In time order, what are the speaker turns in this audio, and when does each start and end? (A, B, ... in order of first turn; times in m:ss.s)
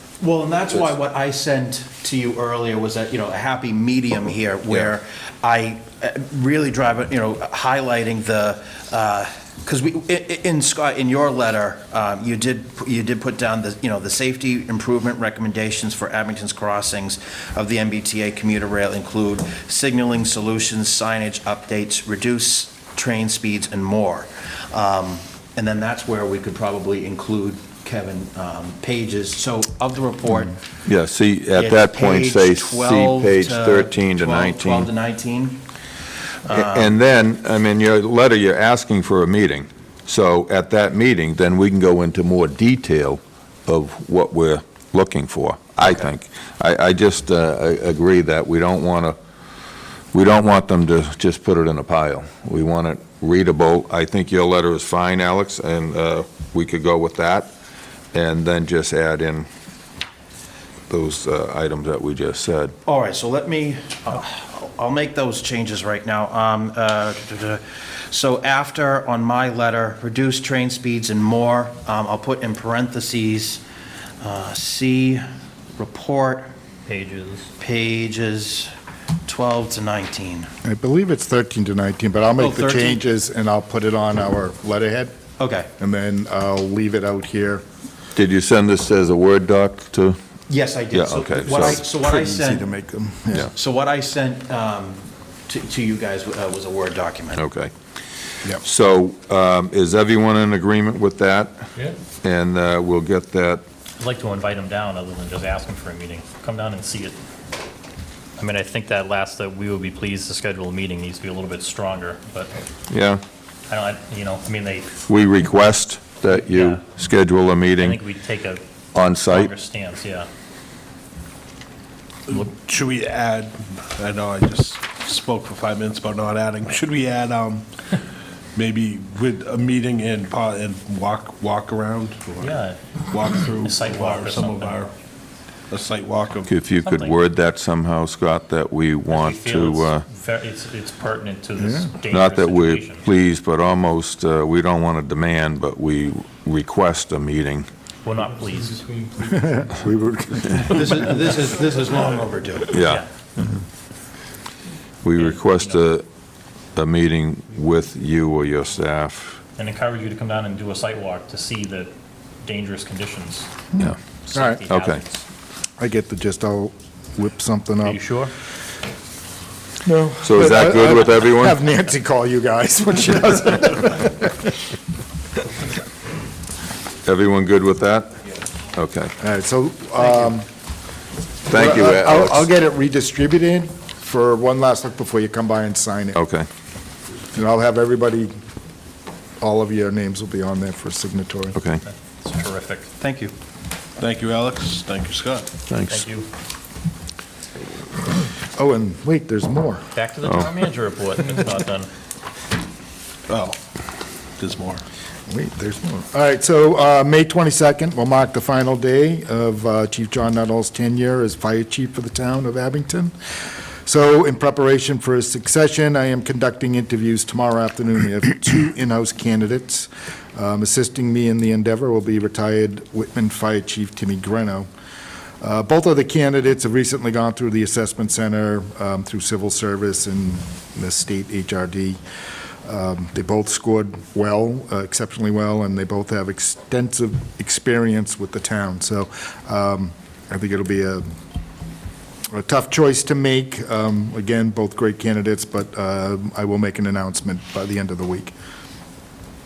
0:00.2-0:30.6 A
0:30.8-0:34.9 B
0:31.5-0:35.6 A
0:36.4-0:36.9 A
0:36.5-0:49.2 B
0:50.1-0:57.5 B
0:58.1-0:59.5 B
1:00.9-1:02.7 B
1:02.8-1:13.6 A
1:14.2-1:15.2 A
1:15.8-1:16.5 A
1:16.9-1:17.5 C
1:17.6-1:18.7 A
1:19.2-1:20.5 A
1:20.6-1:25.1 D
1:22.4-1:23.0 A
1:25.4-1:25.7 A
1:25.8-1:27.6 D
1:28.2-1:30.2 B
1:30.5-1:32.6 A
1:30.9-1:31.8 B
1:31.4-1:33.5 D
1:33.3-1:37.4 A
1:37.3-1:37.7 B
1:38.6-1:41.7 B
1:42.2-1:43.6 B
1:44.0-1:47.2 C
1:48.4-1:52.5 C
1:52.9-1:53.2 B
1:53.7-1:55.1 C
1:55.1-1:58.0 B
1:56.3-1:56.8 C
1:57.8-1:58.6 C
1:58.9-1:59.5 B
1:59.2-2:00.3 C
2:02.3-2:07.7 E
2:08.6-2:14.9 E
2:12.4-2:13.0 C
2:13.6-2:14.9 C
2:15.7-2:16.5 E
2:16.5-2:20.0 B
2:16.8-2:17.2 C
2:19.1-2:23.1 C
2:21.6-2:21.9 D
2:22.1-2:27.7 B
2:28.0-2:29.1 C
2:29.2-2:31.0 D
2:30.7-2:32.8 A
2:32.7-2:33.0 B
2:32.8-2:33.1 C
2:35.0-2:36.1 B
2:35.2-2:35.9 C
2:36.8-2:39.4 B
2:39.6-2:43.6 C
2:43.7-2:44.6 D
2:44.2-2:45.2 C
2:44.7-2:45.0 B
2:45.8-2:48.0 D
2:47.8-2:48.3 C
2:49.8-2:54.6 D
2:50.2-2:51.6 B
2:57.0-2:58.1 B
2:58.7-2:59.1 B
2:59.2-3:00.5 D
3:01.5-3:02.5 B
3:01.5-3:06.2 D
3:06.2-3:06.5 B
3:07.3-3:08.3 D
3:09.4-3:11.6 D
3:11.6-3:11.8 B
3:11.8-3:12.9 C
3:13.0-3:13.3 A
3:14.0-3:15.5 E
3:15.7-3:16.0 B
3:15.9-3:16.3 C
3:18.6-3:19.9 D
3:19.9-3:21.9 C
3:23.3-3:23.6 E
3:24.4-3:24.8 E
3:25.3-3:33.1 D
3:33.8-3:44.7 D
3:45.4-3:52.0 D
3:52.6-4:01.0 D
4:02.3-4:08.3 D